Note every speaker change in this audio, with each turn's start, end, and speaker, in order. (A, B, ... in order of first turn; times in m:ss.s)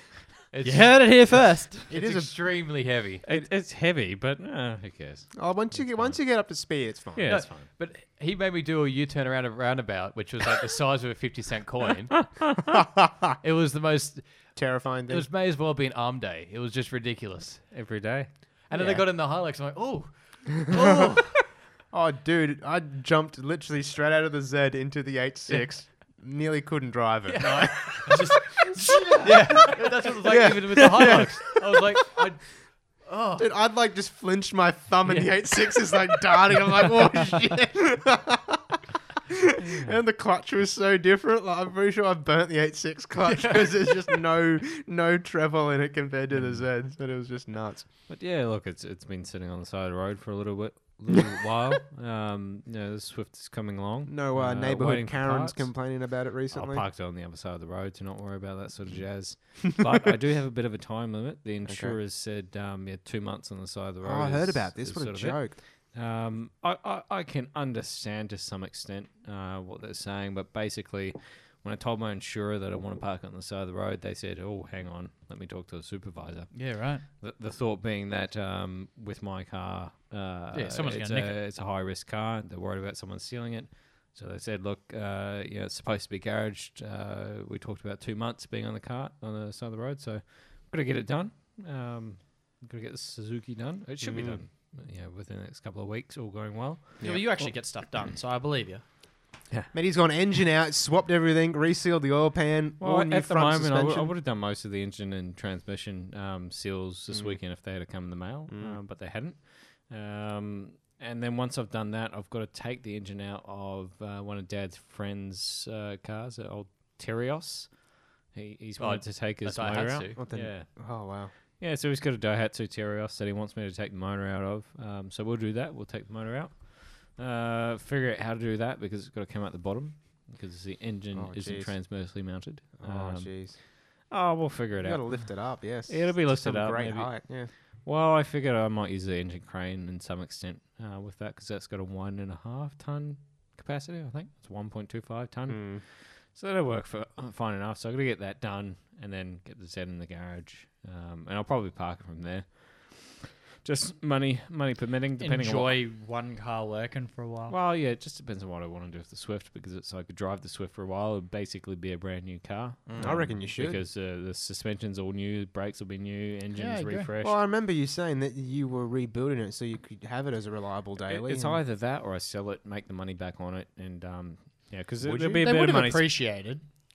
0:00.5-0:03.3 A
0:00.6-0:01.8 B
0:01.9-0:02.3 C
0:03.2-0:06.2 D
0:05.4-0:07.5 C
0:07.2-0:07.7 D
0:07.2-0:12.4 A
0:13.4-0:17.7 A
0:14.6-0:15.3 C
0:17.7-0:18.4 D
0:18.7-0:21.4 A
0:18.7-0:19.0 B
0:20.7-0:21.2 C
0:21.9-0:31.8 C
0:27.3-0:28.2 A
0:27.5-0:29.7 B
0:29.2-0:33.5 A
0:33.4-0:38.8 C
0:35.0-0:36.0 A
0:39.3-0:47.9 C
0:46.3-0:46.6 D
0:48.1-0:56.0 D
0:54.1-0:56.8 C
0:56.5-1:37.4 D
1:01.7-1:02.0 C
1:04.0-1:05.6 C
1:16.5-1:17.0 B
1:20.5-1:21.4 B
1:34.0-1:34.4 C
1:37.0-1:37.3 C
1:37.0-1:38.8 B
1:39.7-1:44.1 C
1:42.8-2:00.7 D
1:47.1-1:47.4 C
1:48.5-1:48.8 C
1:58.8-2:00.2 A
2:00.2-2:01.3 C
2:01.6-2:35.8 D
2:11.1-2:12.0 C
2:12.8-2:13.6 C
2:14.8-2:17.5 C
2:25.5-2:25.8 C
2:35.2-2:37.6 B
2:37.5-2:47.3 D
2:42.9-2:43.2 A
2:43.0-2:43.8 C
2:46.6-2:47.1 B
2:47.2-2:51.6 C
2:51.1-2:56.3 D
2:55.1-2:56.6 B